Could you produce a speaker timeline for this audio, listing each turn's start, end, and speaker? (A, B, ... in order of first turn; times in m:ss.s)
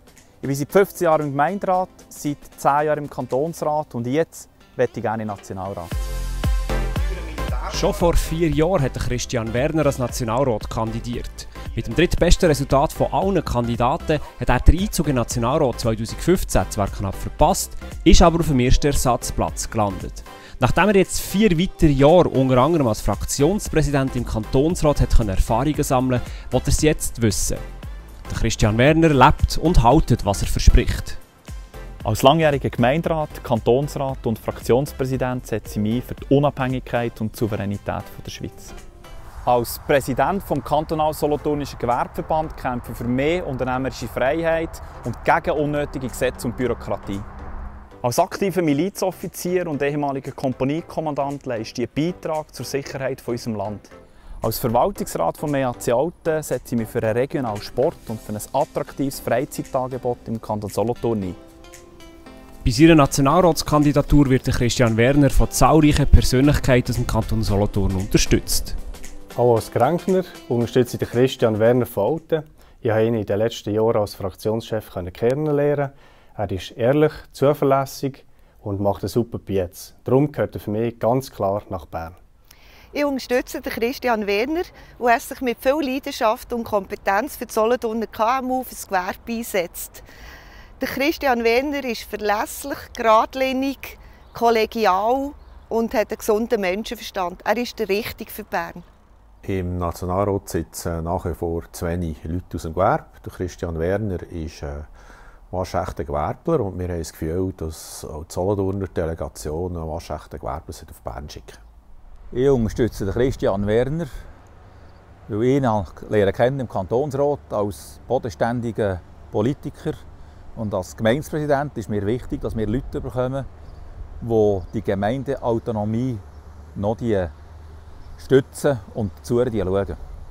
0:00.4-0:06.0 A
0:07.7-0:27.6 B
0:28.3-0:31.2 B
0:32.0-0:38.8 A
0:39.4-0:47.3 A
0:48.0-0:53.9 A
0:54.4-1:01.4 A
1:02.6-1:08.8 B
1:09.4-1:22.2 C
1:22.9-1:30.1 D
1:30.8-1:38.9 D
1:39.4-1:44.9 E
1:45.5-1:51.6 E
1:52.3-1:54.1 F
1:55.3-2:00.0 F
2:00.6-2:03.5 F
2:04.2-2:06.2 F
2:06.8-2:07.3 F
2:08.2-2:10.0 F